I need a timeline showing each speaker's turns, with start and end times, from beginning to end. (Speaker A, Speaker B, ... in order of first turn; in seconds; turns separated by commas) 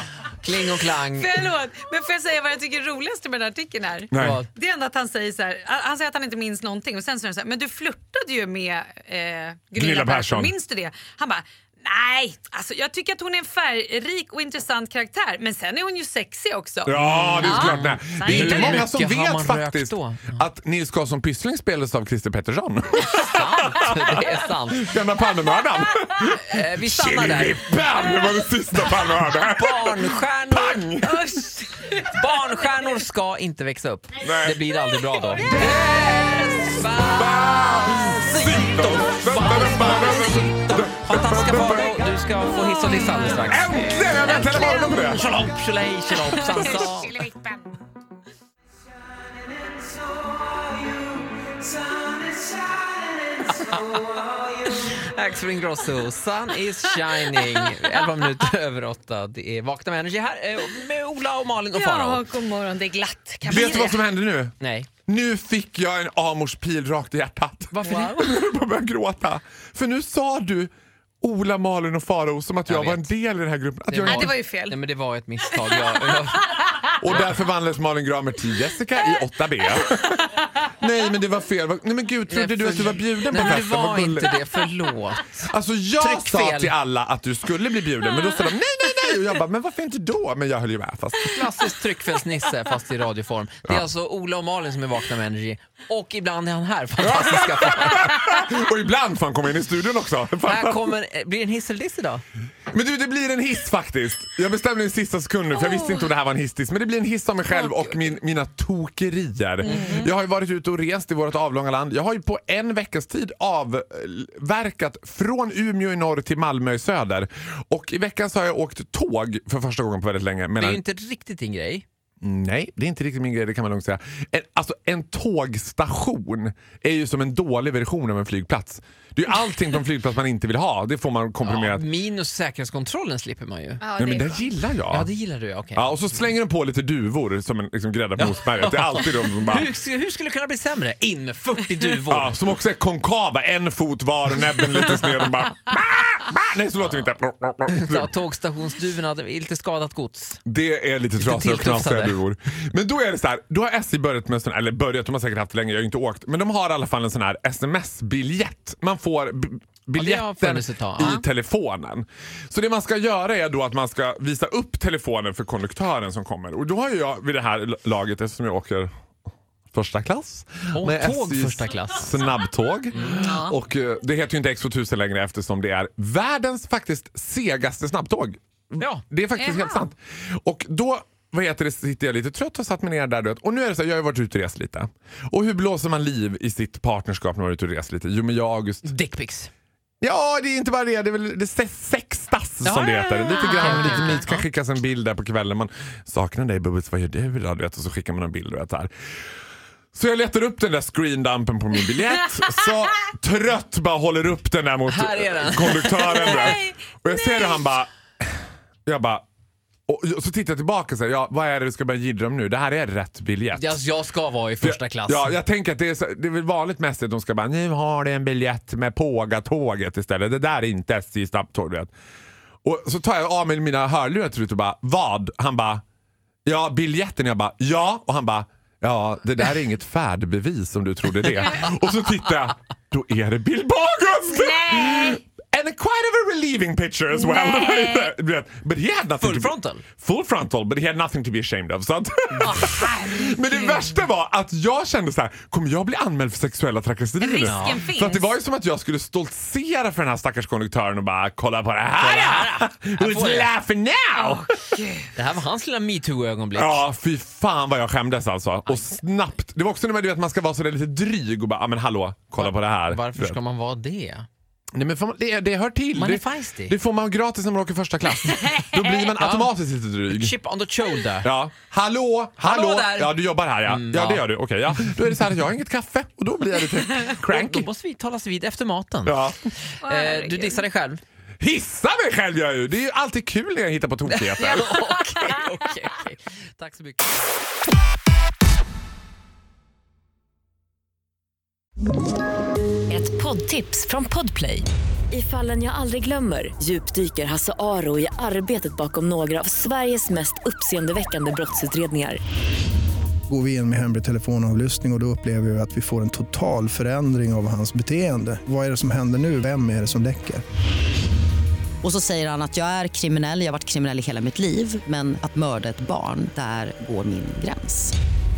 Speaker A: 0.4-1.4, Speaker B: 1.1-18.9, Speaker C: 4.1-4.4, Speaker A: 4.2-4.5, Speaker C: 9.8-10.5, Speaker C: 16.9-31.4, Speaker A: 16.9-20.4, Speaker A: 23.1-25.0, Speaker A: 26.3-27.7, Speaker A: 29.4-31.0, Speaker B: 31.0-32.1, Speaker A: 32.0-47.2, Speaker C: 34.2-34.6, Speaker B: 35.6-36.5, Speaker C: 37.1-42.0, Speaker C: 43.3-45.2, Speaker B: 43.9-45.2, Speaker B: 46.2-47.7, Speaker A: 53.5-54.0, Speaker A: 54.6-62.2, Speaker B: 57.3-57.9, Speaker B: 61.7-64.0, Speaker C: 63.5-74.3, Speaker A: 63.5-63.8, Speaker A: 64.6-64.9, Speaker A: 67.7-68.3, Speaker A: 72.7-73.1, Speaker A: 73.9-76.5, Speaker B: 74.0-74.8, Speaker B: 76.5-76.9, Speaker C: 77.0-84.3, Speaker A: 82.3-86.7, Speaker C: 85.4-91.5, Speaker A: 91.2-98.2, Speaker C: 97.0-100.9, Speaker A: 100.4-102.2, Speaker C: 102.7-120.8, Speaker B: 109.6-110.1, Speaker A: 120.6-121.8, Speaker C: 122.2-131.8, Speaker A: 131.4-133.8, Speaker B: 133.8-134.4, Speaker C: 134.0-135.1, Speaker A: 134.9-136.3, Speaker C: 135.8-139.7, Speaker A: 138.2-142.3, Speaker C: 142.1-148.1, Speaker A: 146.8-147.1, Speaker A: 147.7-150.4, Speaker C: 150.5-168.9, Speaker A: 151.2-152.2, Speaker A: 160.0-161.2, Speaker C: 169.7-188.9, Speaker A: 170.7-172.2, Speaker A: 172.9-173.2, Speaker B: 173.1-173.5, Speaker B: 179.4-179.9, Speaker A: 188.8-189.5, Speaker C: 190.0-198.9, Speaker A: 192.6-194.4, Speaker B: 193.4-194.2, Speaker C: 199.9-209.2, Speaker A: 204.9-206.5, Speaker B: 206.0-207.7, Speaker C: 209.9-213.8, Speaker A: 213.6-215.4, Speaker C: 214.6-221.9, Speaker C: 222.6-225.8, Speaker C: 226.4-254.5, Speaker B: 234.3-235.2, Speaker B: 237.1-238.1, Speaker A: 239.2-239.8, Speaker B: 242.5-243.9, Speaker B: 247.2-248.3, Speaker A: 247.4-247.8, Speaker A: 252.0-253.5, Speaker B: 254.2-255.1, Speaker A: 255.2-256.8, Speaker C: 256.6-263.4, Speaker A: 258.7-259.0, Speaker A: 262.4-264.3, Speaker C: 264.8-270.4, Speaker A: 265.9-266.8, Speaker B: 268.3-269.1, Speaker A: 269.2-269.5, Speaker A: 270.1-271.3, Speaker C: 271.2-277.7, Speaker A: 272.4-274.2, Speaker A: 277.3-281.0, Speaker C: 279.1-279.5, Speaker B: 279.8-280.6, Speaker C: 281.4-284.7, Speaker A: 284.1-287.2, Speaker B: 284.4-285.3, Speaker D: 292.9-302.2, Speaker E: 303.3-310.4, Speaker F: 311.8-317.9